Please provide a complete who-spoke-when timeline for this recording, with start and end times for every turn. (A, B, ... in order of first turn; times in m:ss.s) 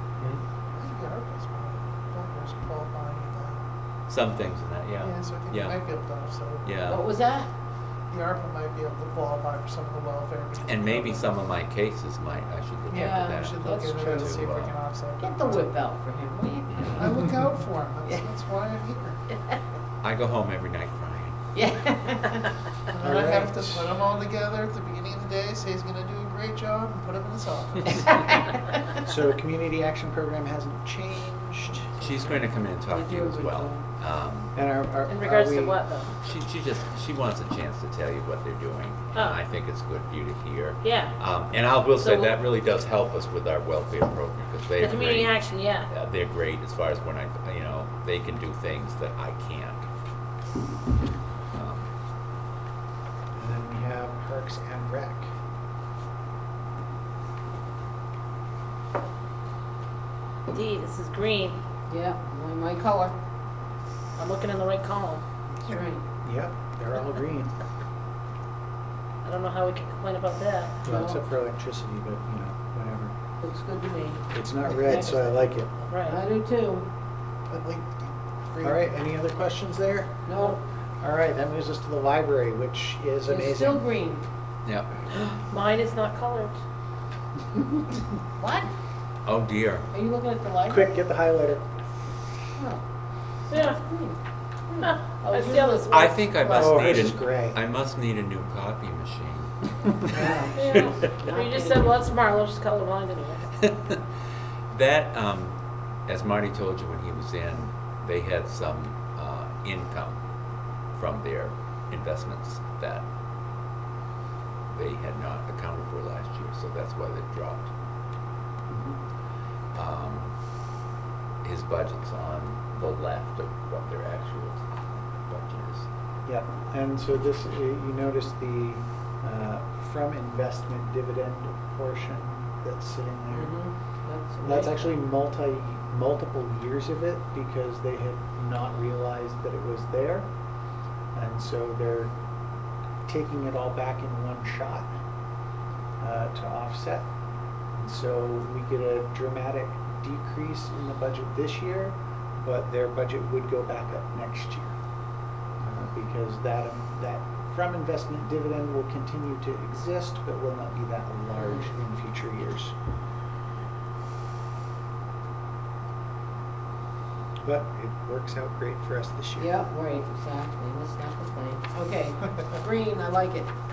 0:00.7-0:03.6 A
0:04.1-0:05.8 B
0:05.0-0:06.7 A
0:06.6-0:07.1 B
0:06.9-0:07.5 C
0:08.1-0:11.4 A
0:10.6-0:14.8 B
0:12.9-0:15.7 A
0:12.9-0:14.1 C
0:15.2-0:17.2 C
0:16.7-0:17.1 B
0:16.9-0:19.2 A
0:20.0-0:21.4 B
0:21.5-0:22.5 C
0:22.9-0:28.5 A
0:23.0-0:24.0 D
0:28.1-0:28.6 C
0:29.0-0:32.5 D
0:32.0-0:34.5 B
0:32.9-0:33.8 C
0:34.5-0:35.8 D
0:35.1-0:36.1 E
0:36.2-0:49.8 B
0:40.8-0:41.1 E
0:42.0-0:42.3 E
0:44.8-0:45.9 E
0:51.5-0:51.8 B
0:53.3-0:55.3 D
1:00.5-1:01.6 E
1:01.9-1:03.1 C
1:04.2-1:05.2 E
1:05.6-1:06.0 C
1:06.2-1:07.5 D
1:09.2-1:10.7 E
1:10.8-1:13.1 D
1:10.8-1:11.2 C
1:13.4-1:14.2 C
1:14.3-1:15.7 D
1:15.9-1:16.2 E
1:16.0-1:16.9 C
1:17.5-1:18.8 A
1:18.6-1:20.3 D
1:20.3-1:20.6 C
1:21.0-1:23.8 D
1:23.2-1:24.2 C
1:24.6-1:24.9 B
1:25.1-1:26.5 E
1:28.4-1:28.7 C
1:29.3-1:29.9 B
1:29.9-1:30.9 C
1:30.7-1:31.6 D
1:32.6-1:32.8 C
1:33.5-1:33.8 E
1:33.5-1:34.2 C
1:34.7-1:37.0 C
1:34.8-1:36.1 E
1:35.9-1:39.5 B
1:36.5-1:37.6 D
1:40.1-1:42.0 C
1:40.6-1:43.5 E
1:43.6-1:44.0 B
1:44.7-1:45.5 B
1:46.1-1:50.2 B
1:51.0-1:53.0 B
1:54.7-1:57.7 B
1:58.7-1:59.0 D
1:59.7-2:00.2 B
2:01.4-2:05.8 B
2:06.2-2:13.5 D
2:13.3-2:14.8 C
2:14.4-2:20.3 D
2:21.1-2:22.1 D
2:23.0-2:24.9 D
2:26.0-2:27.1 D
2:27.7-2:34.7 D
2:35.6-2:42.7 D
2:41.3-2:41.7 C
2:47.4-2:49.5 D
2:49.4-2:53.5 C